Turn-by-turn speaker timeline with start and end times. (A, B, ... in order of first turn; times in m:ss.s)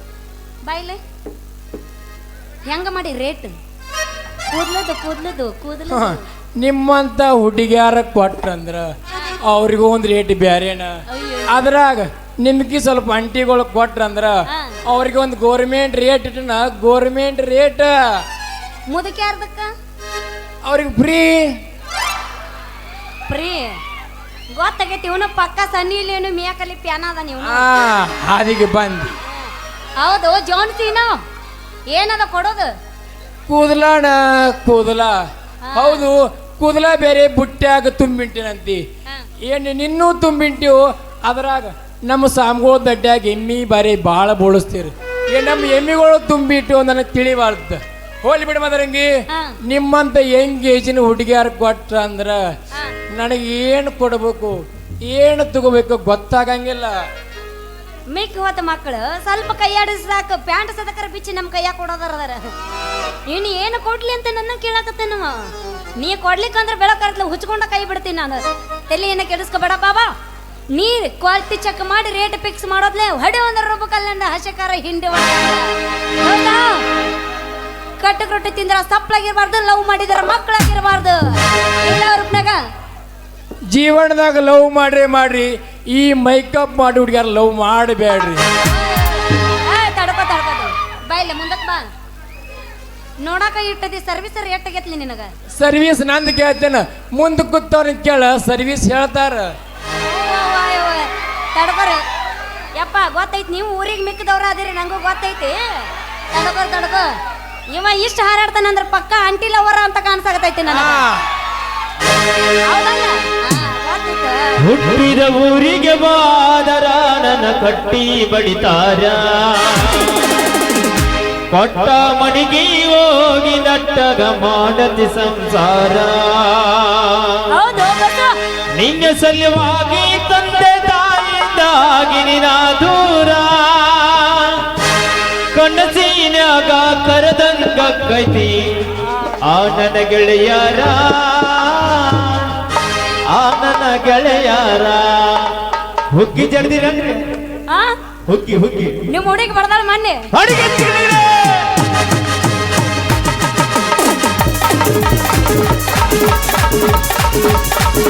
0:00.6-0:01.0 A
0:02.7-0:03.6 A
0:04.5-0:06.2 A
0:05.9-0:08.9 B
0:09.4-0:18.2 B
0:11.1-0:11.6 A
0:14.5-0:14.8 A
0:18.9-0:19.7 A
0:20.6-0:21.5 B
0:23.3-0:23.8 A
0:24.5-0:27.7 A
0:27.4-0:29.2 B
0:29.3-0:31.2 A
0:31.9-0:32.7 A
0:33.5-0:35.2 B
0:35.6-0:36.1 A
0:35.8-0:38.8 B
0:39.4-0:49.1 B
0:49.3-0:49.6 A
0:49.7-0:52.4 B
0:53.1-0:57.0 B
0:58.1-1:02.5 A
1:03.3-1:10.1 A
1:10.7-1:16.8 A
1:18.0-1:22.6 A
1:23.7-1:28.4 B
1:28.6-1:31.8 A
1:33.2-1:35.3 A
1:35.6-1:39.5 B
1:40.0-1:42.0 A
1:42.7-1:47.2 A
1:47.7-1:51.1 A
1:50.7-1:51.2 B
1:52.6-1:54.6 A
1:54.6-2:00.2 C
2:01.5-2:07.5 C
2:07.5-2:08.4 A
2:08.7-2:14.8 C
2:15.5-2:18.8 C
2:19.4-2:22.5 C
2:23.3-2:27.4 C
2:27.7-2:27.9 A
2:28.3-2:29.1 C
2:29.1-2:30.3 A
2:30.3-2:31.7 C